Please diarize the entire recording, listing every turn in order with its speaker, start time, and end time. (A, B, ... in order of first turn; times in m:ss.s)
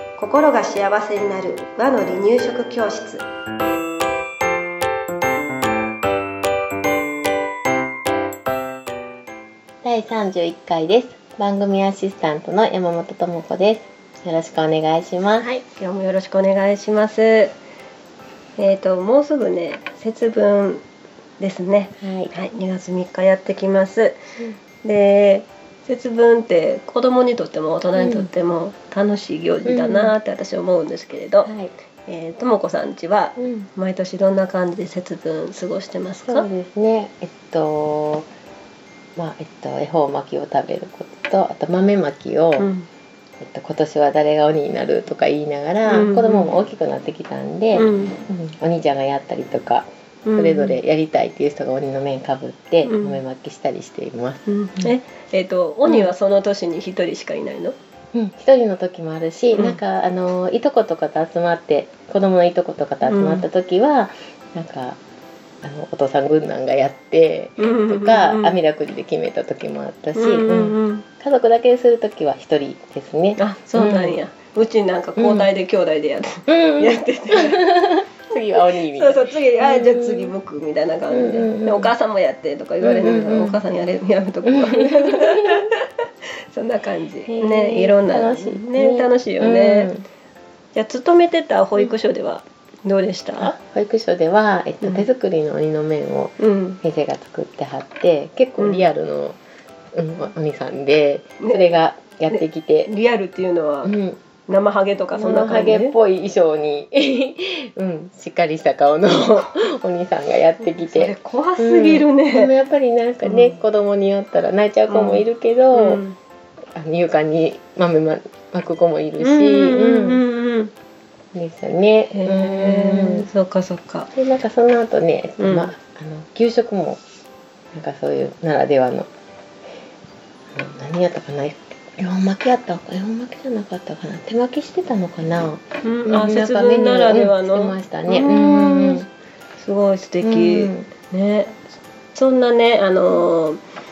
0:00.2-0:03.2 A
0:09.8-0:15.5 B
0:15.4-0:17.5 A
0:18.6-0:20.8 A
0:21.4-0:24.2 A
0:22.0-0:22.3 B
0:24.8-0:31.5 A
0:28.0-0:28.3 B
0:29.6-0:30.1 B
0:31.4-0:31.7 B
0:32.1-0:36.5 A
0:33.4-0:33.7 B
0:36.2-0:38.3 B
0:39.2-0:42.7 B
0:42.6-0:42.9 A
0:43.4-0:54.9 B
0:45.9-0:46.5 A
0:47.7-0:48.2 A
0:50.2-0:50.8 A
0:52.8-0:53.2 A
0:54.4-0:57.7 A
0:55.8-0:56.1 B
0:58.1-1:05.0 B
0:59.5-0:59.8 A
1:03.0-1:03.5 A
1:05.6-1:14.2 B
1:07.6-1:08.5 A
1:10.2-1:11.0 A
1:13.4-1:17.7 A
1:15.2-1:15.5 B
1:16.5-1:20.3 B
1:18.5-1:25.8 A
1:21.1-1:21.9 B
1:22.8-1:23.6 B
1:24.4-1:25.6 B
1:26.5-1:29.9 A
1:27.2-1:30.0 B
1:30.7-1:33.5 A
1:33.4-1:39.4 B
1:34.8-1:35.1 A
1:36.4-1:36.8 A
1:38.6-1:38.8 A
1:39.9-1:42.9 B
1:41.4-1:43.9 A
1:43.8-1:44.2 B
1:44.5-1:46.0 A
1:45.2-1:56.0 B
1:50.6-1:52.5 A
1:53.2-1:53.6 A
1:54.9-1:56.2 A
1:56.7-2:00.2 B
1:59.2-2:00.7 A
2:01.3-2:03.3 B
2:02.1-2:04.1 A
2:04.1-2:07.0 B
2:05.4-2:05.7 A
2:07.7-2:09.1 B
2:10.5-2:19.1 B
2:15.8-2:23.6 A
2:20.2-2:20.9 B